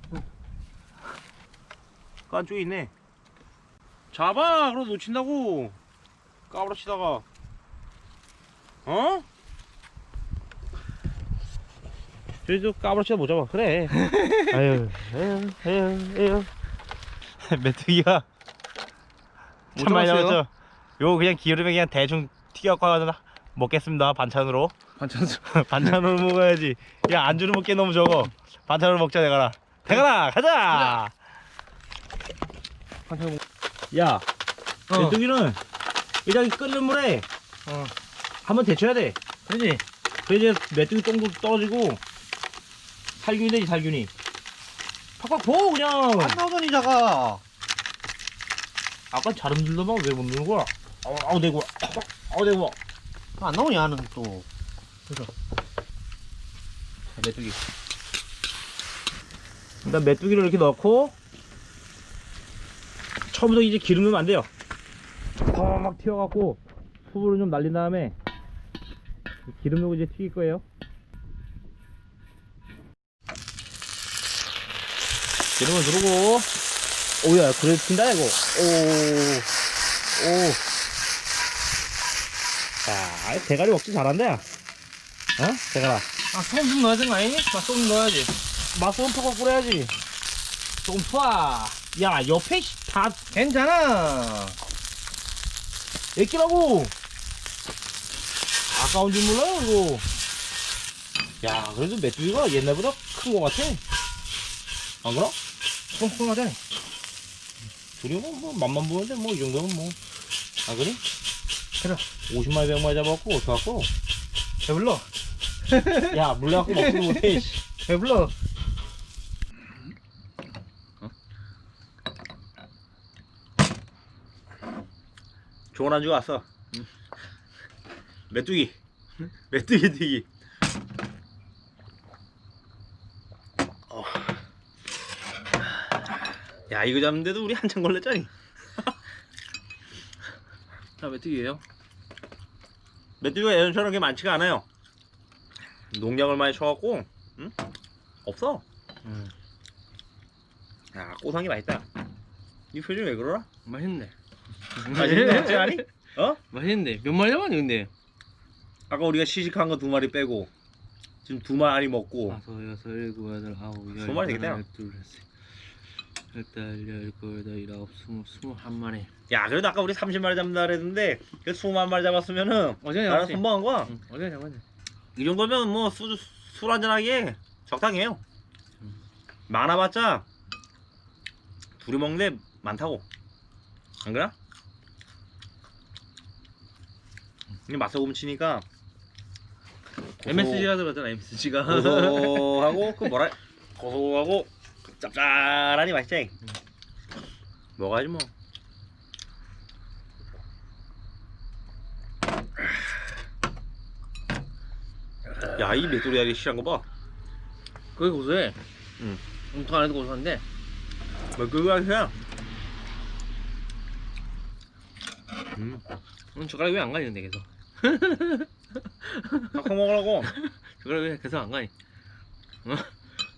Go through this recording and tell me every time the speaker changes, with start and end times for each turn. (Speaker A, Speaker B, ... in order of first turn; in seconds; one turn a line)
Speaker A: 2.3-2.9
Speaker A: 4.1-5.8
Speaker A: 6.5-7.2
Speaker A: 8.8-9.2
Speaker A: 12.4-16.5
Speaker B: 14.1-14.3
Speaker A: 17.4-18.2
Speaker A: 19.7-20.5
Speaker B: 19.8-20.4
Speaker A: 21.0-24.7
Speaker B: 25.0-25.9
Speaker A: 25.5-31.1
Speaker B: 33.1-33.4
Speaker A: 33.9-34.2
Speaker B: 34.9-35.2
Speaker A: 34.9-35.6
Speaker A: 36.2-37.2
Speaker B: 37.6-37.9
Speaker A: 38.4-39.2
Speaker B: 39.5-39.8
Speaker A: 40.3-42.0
Speaker A: 43.2-44.1
Speaker A: 45.2-46.4
Speaker B: 46.1-47.4
Speaker A: 49.1-52.8
Speaker B: 53.4-54.5
Speaker B: 57.2-57.5
Speaker A: 59.8-61.1
Speaker A: 63.3-64.5
Speaker A: 65.5-68.1
Speaker A: 69.5-70.6
Speaker A: 75.6-76.5
Speaker A: 77.2-79.5
Speaker A: 80.2-80.6
Speaker A: 82.8-84.4
Speaker A: 85.4-86.0
Speaker B: 86.3-88.3
Speaker A: 88.7-89.9
Speaker B: 90.8-91.7
Speaker A: 91.8-93.2
Speaker B: 93.3-94.6
Speaker A: 96.2-96.9
Speaker A: 98.7-100.0
Speaker A: 101.4-103.8
Speaker A: 105.0-105.3
Speaker B: 105.9-106.6
Speaker A: 108.0-110.0
Speaker A: 110.7-111.0
Speaker A: 112.3-113.9
Speaker B: 114.6-115.0
Speaker B: 115.7-116.1
Speaker A: 115.9-117.6
Speaker B: 116.6-118.3
Speaker A: 125.7-126.4
Speaker A: 128.3-128.7
Speaker A: 129.5-130.2
Speaker A: 136.7-138.3
Speaker B: 141.0-141.6
Speaker A: 143.2-144.6
Speaker A: 145.9-147.5
Speaker A: 148.2-148.6
Speaker B: 149.0-149.3
Speaker A: 150.9-151.8
Speaker A: 152.7-153.5
Speaker B: 153.6-154.1
Speaker B: 154.8-155.8
Speaker A: 154.8-156.4
Speaker B: 156.5-157.9
Speaker A: 158.9-160.5
Speaker A: 161.2-162.4
Speaker B: 162.3-165.2
Speaker A: 163.9-164.6
Speaker B: 166.3-169.1
Speaker A: 169.3-173.9
Speaker B: 172.8-174.6
Speaker A: 175.2-178.2
Speaker A: 179.5-180.2
Speaker A: 181.8-183.0
Speaker A: 184.0-184.3
Speaker A: 187.7-188.6
Speaker A: 190.2-190.7
Speaker B: 190.2-193.1
Speaker A: 191.7-196.3
Speaker A: 197.8-198.3
Speaker A: 205.5-206.8
Speaker B: 207.9-208.6
Speaker B: 209.5-210.4
Speaker A: 211.3-212.1
Speaker A: 215.5-215.8
Speaker B: 216.3-218.5
Speaker B: 219.0-221.7
Speaker A: 219.5-220.3
Speaker B: 222.6-222.9